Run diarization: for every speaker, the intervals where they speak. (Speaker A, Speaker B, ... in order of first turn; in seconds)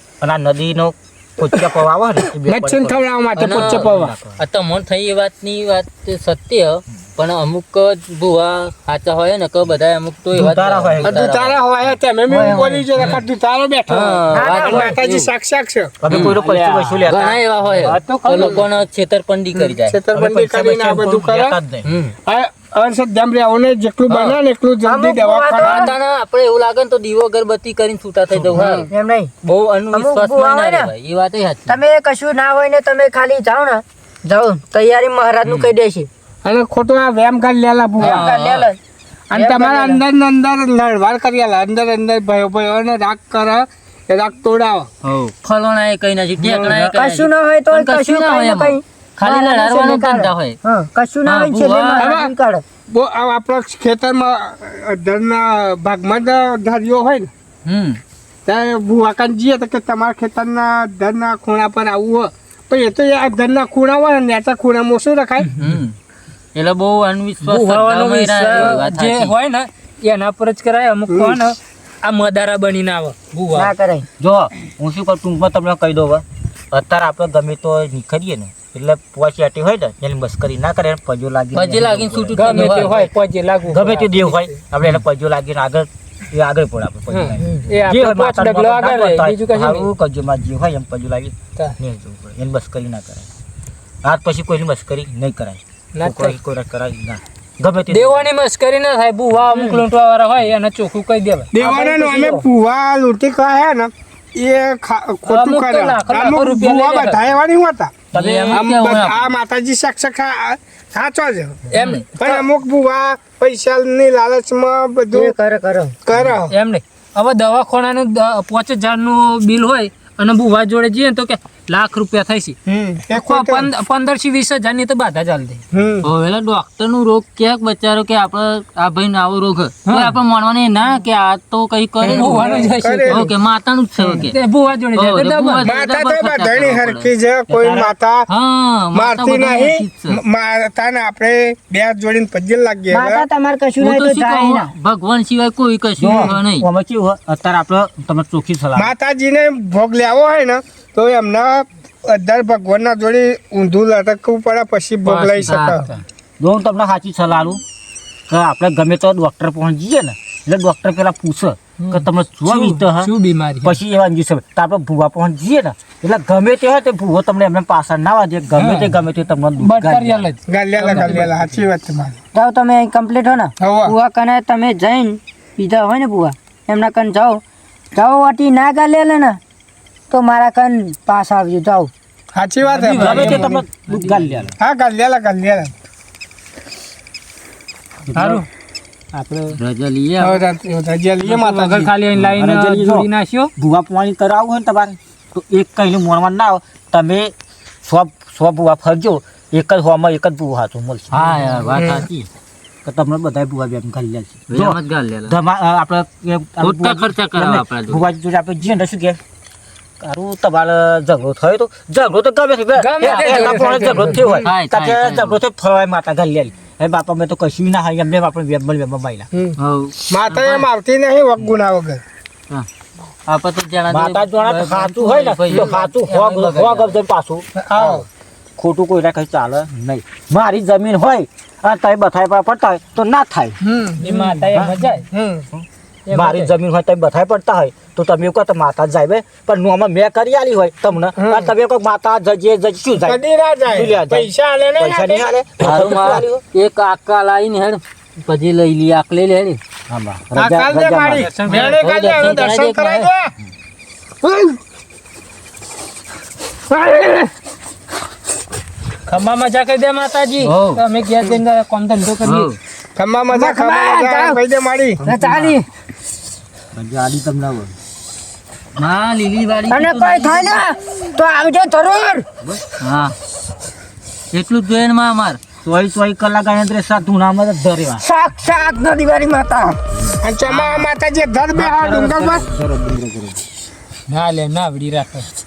Speaker A: 0.2-4.4, 10.3-11.2, 16.0-18.5, 20.1-21.9, 74.2-83.0, 83.7-93.3, 94.0-98.3, 108.1-108.7, 137.5-137.9, 146.0-148.9, 156.4-157.6, 158.3-163.1, 163.6-170.3, 182.9-184.5, 188.1-188.4, 192.2-197.3, 197.8-201.5, 202.8-209.2, 210.0-219.3, 223.9-228.1, 228.6-233.6, 234.5-234.8, 235.5-246.4, 249.9-251.3, 265.0-265.6, 266.7-267.8, 275.6-278.0, 281.5-283.4
Speaker B: 2.5-4.2, 11.0-15.9, 18.4-18.6, 19.6-21.6, 22.2-25.9, 28.5-28.9, 36.4-38.3, 39.3-44.9, 52.0-52.3, 52.9-57.3, 58.5-65.5, 71.1-71.5, 101.5-108.0, 108.5-111.6, 112.2-115.3, 116.0-116.5, 122.7-123.7, 125.7-126.1, 132.0-133.3, 135.6-138.2, 138.9-143.2, 148.8-155.9, 170.5-172.2, 173.6-173.9, 182.3-183.4, 184.6-185.7, 190.2-191.9, 220.1-222.0, 227.6-228.1, 233.7-234.4, 235.1-235.5, 241.2-241.5, 243.0-245.3, 250.3-253.3, 254.2-254.6, 263.0-265.0, 280.2-282.4
Speaker C: 3.4-11.6, 13.9-15.3, 16.1-16.4, 17.1-20.0, 21.8-22.1, 24.1-24.4, 25.6-28.9, 29.4-31.8, 35.4-35.7, 38.0-38.7, 45.0-50.6, 51.2-52.1, 57.6-58.0, 65.6-65.9, 66.5-69.3, 81.5-83.0, 108.1-109.3, 126.0-134.4, 134.9-137.1, 138.3-140.2, 143.8-146.7, 155.4-156.0, 182.9-183.6, 189.5-190.4, 201.1-202.3, 204.5-205.3, 206.6-208.1, 213.0-215.4, 219.6-220.7, 223.3-227.0, 245.6-249.6, 251.5-253.1, 260.4-260.8, 262.2-262.6, 268.8-270.6, 272.8-273.1, 274.3-275.4, 280.5-280.8
Speaker D: 12.3-12.9, 14.3-15.0, 24.8-25.9, 28.9-29.3, 29.9-30.9, 31.7-36.1, 38.0-38.8, 39.3-40.0, 46.5-52.6, 73.5-74.1, 115.1-116.0, 142.9-144.7, 172.3-177.4, 177.9-179.4, 180.1-181.9, 256.7-257.3, 263.3-264.4, 265.0-265.6, 269.7-272.2, 278.0-279.8
Speaker E: 16.2-17.0, 17.9-18.5, 65.4-65.8, 67.4-73.7, 82.3-84.6, 87.1-89.9, 96.0-96.3, 97.9-102.4, 105.2-107.2, 111.7-112.4, 116.5-122.6, 123.1-125.6, 129.9-130.2, 132.0-133.3, 134.1-135.8, 155.1-155.9, 161.8-163.8, 168.5-169.0, 169.6-171.6, 182.6-184.2, 188.1-188.5, 189.1-189.6, 191.2-193.5, 212.8-214.4, 234.0-235.1, 236.1-236.5, 251.2-252.4, 259.1-262.5, 284.1-285.3